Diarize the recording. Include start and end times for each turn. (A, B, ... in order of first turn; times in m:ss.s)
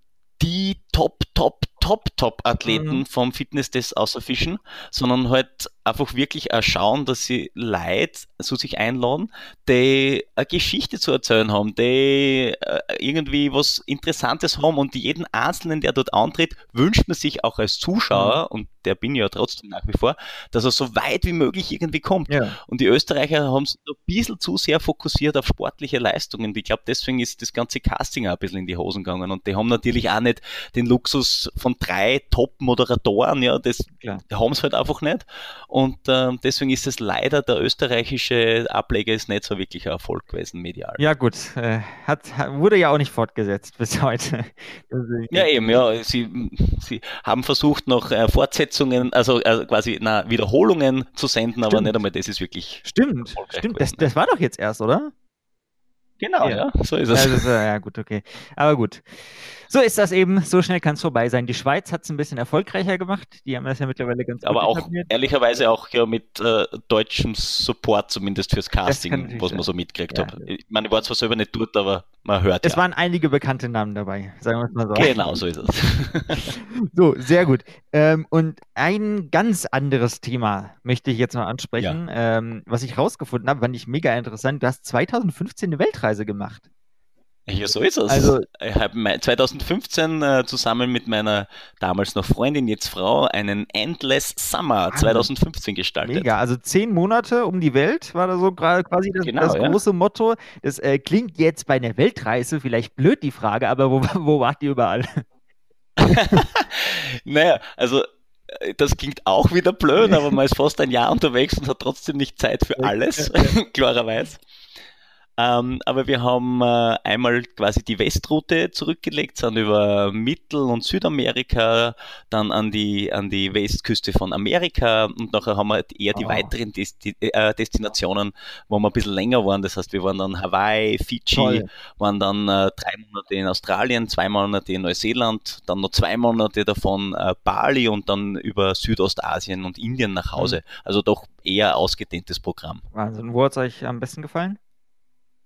0:00.4-0:41.0 A
0:02.6-0:03.0 B
0:18.1-0:18.4 B
0:22.3-0:22.6 B
0:41.0-0:45.8 B
0:45.3-0:54.1 A
0:51.7-0:52.0 B
0:52.8-0:55.1 B
0:56.2-0:57.5 A
0:56.4-1:05.1 B
1:04.4-1:12.8 A
1:08.8-1:10.5 B
1:12.6-1:15.7 B
1:15.0-1:16.5 A
1:16.3-1:26.6 B
1:27.5-1:36.3 A
1:28.1-1:28.5 B
1:34.9-1:35.3 B
1:36.0-1:45.1 B
1:39.2-1:39.8 A
1:46.0-1:54.4 A
1:50.0-1:50.3 B
1:52.8-1:53.6 B
1:55.4-2:22.8 A
2:06.1-2:06.5 B
2:11.3-2:11.7 B
2:22.9-2:24.6 B